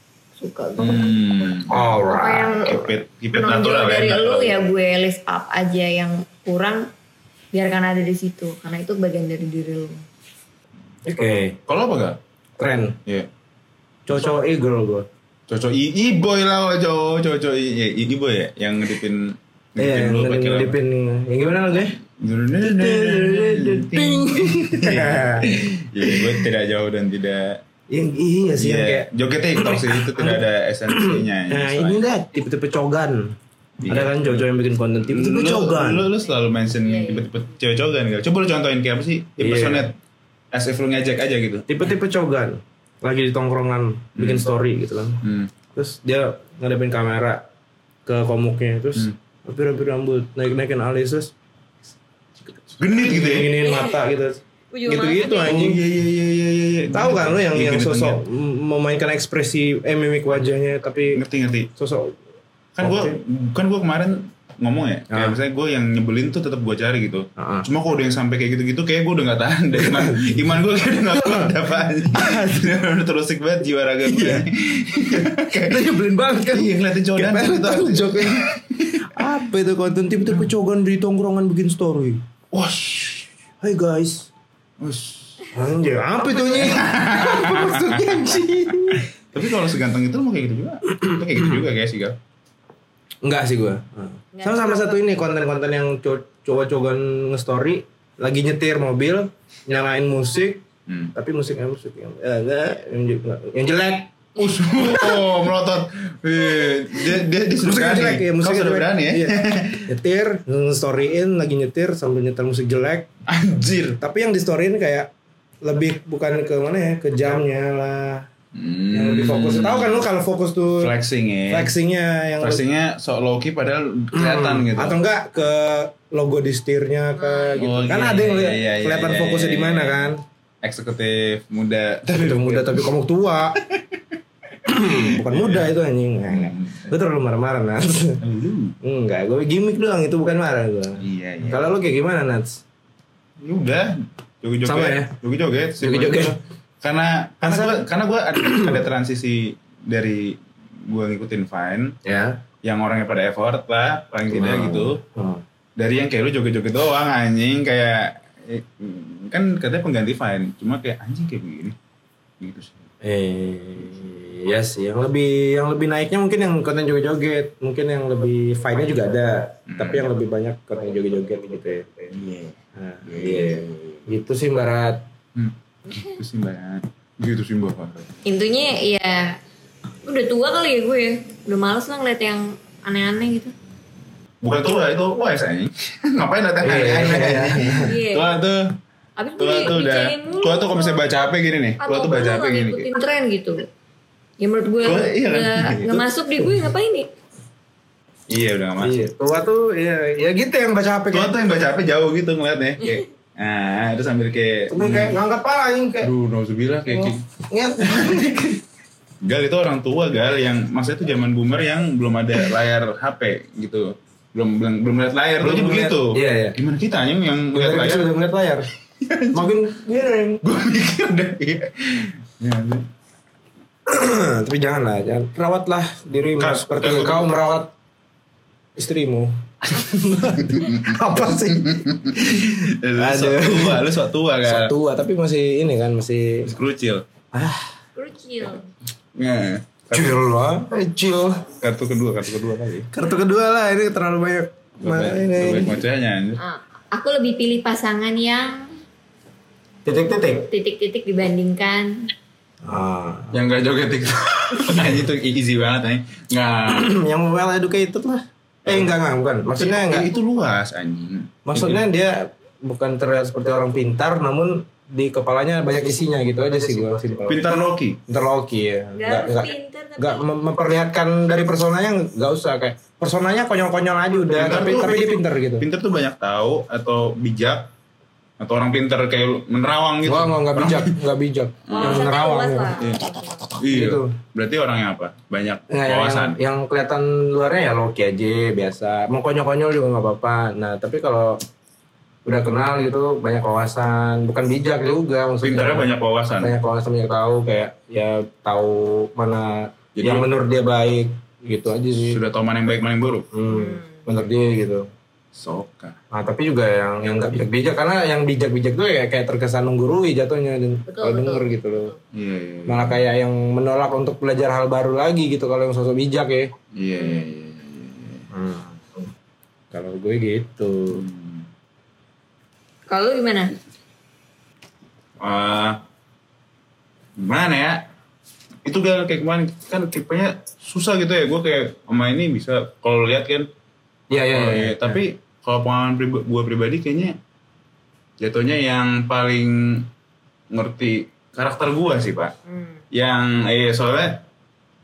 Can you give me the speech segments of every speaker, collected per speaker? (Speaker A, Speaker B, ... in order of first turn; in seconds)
Speaker A: 0.4-1.1, 2.0-6.8, 7.5-10.0, 36.3-37.3, 53.4-54.0, 54.7-55.6, 94.3-95.0, 127.2-127.5, 178.3-179.4, 180.1-183.5, 187.8-188.3, 189.2-191.1, 191.8-193.6, 194.4-197.1, 238.0-238.7, 246.4-248.7, 250.5-252.1, 268.9-270.2, 281.7-283.5, 303.5-304.1, 310.9-311.5, 322.9-323.6, 342.5-342.8
Speaker B: 0.8-2.0, 2.6-4.6, 11.7-12.2, 15.5-20.8, 22.2-27.6, 28.6-32.0, 33.8-34.5, 35.1-40.0, 40.5-41.7, 44.2-44.5, 45.2-45.5, 52.8-53.5, 55.4-58.2, 61.1-61.7, 62.8-75.9, 76.5-79.3, 82.5-83.3, 84.8-85.4, 86.5-88.1, 88.9-92.2, 100.9-101.1, 104.4-109.9, 113.3-114.0, 118.5-120.1, 120.8-121.7, 122.4-125.0, 127.6-130.1, 130.6-132.9, 134.7-135.7, 136.3-136.9, 138.2-138.8, 141.0-141.7, 143.4-152.0, 152.6-155.0, 155.8-161.8, 162.4-162.8, 169.7-170.1, 172.1-172.5, 173.1-174.0, 175.3-178.2, 184.4-188.8, 189.4-192.9, 194.8-195.9, 198.3-199.0, 201.1-205.2, 206.0-207.2, 207.8-208.3, 209.2-218.1, 219.0-219.6, 220.4-222.9, 226.4-227.3, 230.4-234.7, 236.4-237.0, 239.2-240.2, 241.6-242.9, 244.8-246.4, 253.3-256.9, 258.7-258.9, 259.6-261.8, 267.3-268.0, 274.3-277.7, 278.4-281.0, 281.7-282.1, 282.8-286.4, 295.4-296.6, 300.0-300.3, 302.0-303.3, 305.4-306.0, 312.1-313.0, 316.8-318.3, 320.9-321.5, 325.2-325.8, 327.2-327.9, 328.6-333.5, 334.3-337.2, 338.2-339.9, 340.5-342.4, 342.9-344.2
Speaker C: 1.7-2.6, 11.1-11.6, 12.6-13.0, 14.1-15.1, 19.8-22.0, 22.6-25.5, 26.0-26.4, 27.9-33.4, 33.9-36.1, 39.4-39.9, 41.7-47.4, 48.1-51.3, 52.9-55.8, 56.9-61.2, 61.8-62.2, 62.8-63.2, 65.1-65.4, 67.4-67.7, 69.7-71.6, 72.1-72.8, 74.1-74.5, 75.1-78.5, 79.0-82.2, 83.6-84.3, 85.5-89.1, 93.2-104.2, 107.6-113.1, 114.0-115.1, 115.6-118.3, 118.9-120.9, 121.5-122.6, 124.1-130.2, 132.1-133.6, 134.7-138.2, 138.8-142.6, 144.6-145.1, 145.8-146.4, 147.4-147.8, 148.3-148.8, 152.1-152.4, 154.3-155.4, 163.0-172.1, 172.8-175.0, 186.6-187.9, 198.8-201.3, 204.7-206.1, 206.9-208.6, 215.4-216.6, 217.5-218.7, 219.3-220.4, 223.9-227.7, 228.8-233.9, 234.4-236.5, 237.3-237.7, 239.9-241.5, 242.9-245.8, 249.8-250.5, 252.6-253.4, 254.7-255.0, 256.7-260.1, 261.5-275.7, 280.1-282.8, 283.7-284.1, 285.7-291.4, 292.2-302.2, 303.3-304.9, 306.1-311.9, 312.7-316.5, 318.3-318.8, 319.7-321.1, 334.1-335.0